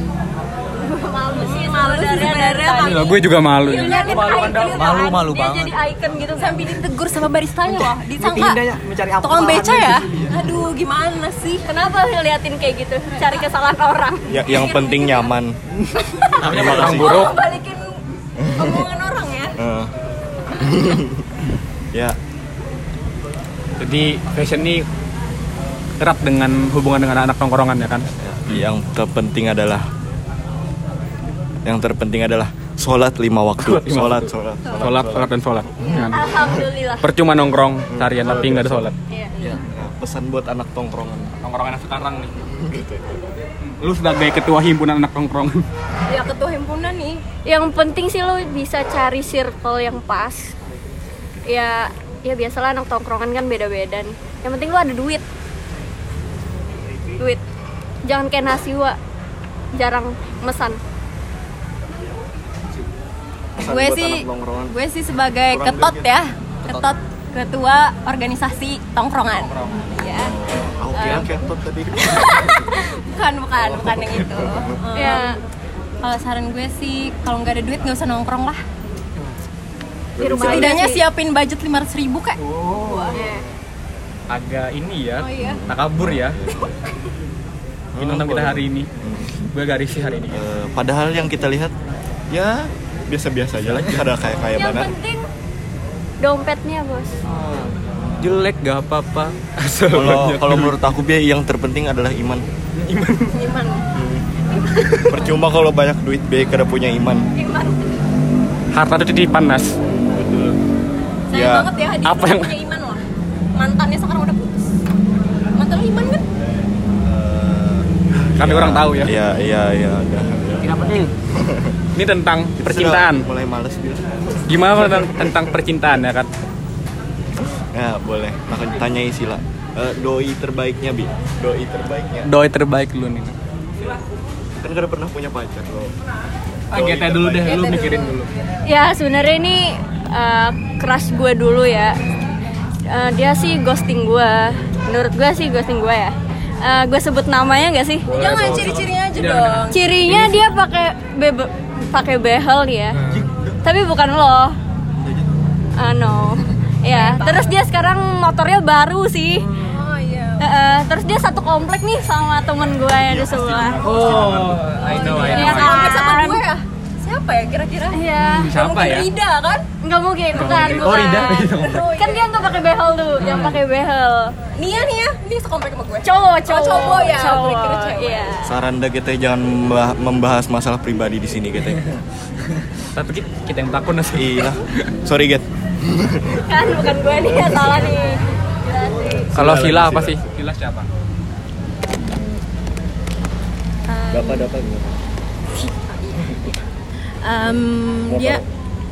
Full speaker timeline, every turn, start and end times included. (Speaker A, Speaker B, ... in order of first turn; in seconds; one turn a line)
Speaker A: 0.8-6.8
Speaker B: 1.3-4.7
Speaker C: 2.8-5.0
Speaker D: 4.6-5.8
Speaker B: 6.4-8.6
Speaker D: 8.2-10.1
Speaker B: 9.2-11.7
Speaker A: 11.7-14.7
Speaker B: 13.1-13.5
Speaker E: 14.3-15.6
Speaker B: 14.4-15.3
Speaker B: 16.0-19.6
Speaker E: 16.4-17.3
Speaker C: 16.4-17.4
Speaker E: 18.4-18.9
Speaker E: 19.6-19.9
Speaker E: 20.6-21.3
Speaker C: 23.8-24.9
Speaker C: 26.0-28.1
Speaker E: 28.2-29.9
Speaker E: 31.6-35.3
Speaker C: 33.6-39.0
Speaker E: 35.9-36.5
Speaker A: 36.1-37.1
Speaker E: 37.9-41.3
Speaker C: 41.4-42.3
Speaker E: 42.4-43.2
Speaker C: 43.8-45.6
Speaker B: 46.1-47.2
Speaker A: 47.5-50.5
Speaker A: 51.5-55.2
Speaker A: 58.0-59.0
Speaker A: 59.7-60.8
Speaker E: 63.6-64.8
Speaker B: 63.6-70.4
Speaker E: 65.5-66.0
Speaker C: 69.4-69.8
Speaker E: 70.1-72.6
Speaker B: 70.9-71.3
Speaker B: 72.0-75.4
Speaker E: 73.6-74.7
Speaker A: 74.9-75.4
Speaker B: 76.0-78.6
Speaker E: 80.2-80.7
Speaker A: 80.2-81.0
Speaker B: 80.4-83.2
Speaker C: 82.4-83.3
Speaker A: 83.1-83.4
Speaker C: 84.3-86.4
Speaker B: 85.2-85.6
Speaker E: 85.4-86.7
Speaker E: 88.0-89.3
Speaker C: 88.0-88.9
Speaker C: 89.5-90.4
Speaker E: 90.3-91.7
Speaker E: 92.3-94.9
Speaker C: 93.6-94.0
Speaker A: 94.5-95.3
Speaker A: 96.2-97.1
Speaker E: 97.3-97.7
Speaker C: 98.2-100.8
Speaker E: 99.9-102.4
Speaker C: 102.8-103.4
Speaker B: 103.3-103.8
Speaker E: 104.0-107.3
Speaker B: 107.3-107.9
Speaker C: 108.7-109.8
Speaker E: 109.9-110.6
Speaker B: 111.3-113.0
Speaker E: 111.3-111.7
Speaker C: 112.0-112.5
Speaker B: 113.6-114.7
Speaker B: 115.6-116.2
Speaker E: 117.0-121.8
Speaker C: 118.3-119.1
Speaker C: 120.6-121.1
Speaker C: 122.0-123.3
Speaker E: 122.6-125.5
Speaker C: 124.5-126.3
Speaker E: 127.7-132.3
Speaker C: 132.2-133.3
Speaker E: 134.6-135.9
Speaker C: 136.7-138.3
Speaker E: 136.7-137.9
Speaker B: 137.4-138.3
Speaker A: 138.7-142.0
Speaker A: 142.9-148.1
Speaker C: 148.1-149.7
Speaker B: 148.1-149.8
Speaker E: 148.4-148.7
Speaker A: 149.7-153.0
Speaker C: 152.9-153.3
Speaker E: 153.1-153.6
Speaker A: 153.6-154.6
Speaker E: 154.9-155.4
Speaker A: 155.8-159.5
Speaker B: 156.9-157.5
Speaker B: 159.6-160.5
Speaker A: 160.4-164.0
Speaker E: 163.0-165.7
Speaker C: 163.8-165.9
Speaker B: 164.8-169.7
Speaker A: 164.9-166.4
Speaker A: 167.9-168.6
Speaker C: 168.2-169.1
Speaker A: 169.8-174.3
Speaker C: 170.3-171.9
Speaker B: 170.3-172.2
Speaker C: 173.2-173.6
Speaker B: 174.6-178.3
Speaker A: 176.0-178.5
Speaker E: 178.5-182.0
Speaker C: 182.9-184.6
Speaker E: 184.1-186.4
Speaker A: 186.5-189.3
Speaker E: 187.2-187.7
Speaker E: 189.1-190.2
Speaker C: 189.3-190.9
Speaker B: 193.9-194.5
Speaker E: 194.1-195.0
Speaker B: 195.6-196.6
Speaker B: 197.2-198.4
Speaker E: 198.1-198.4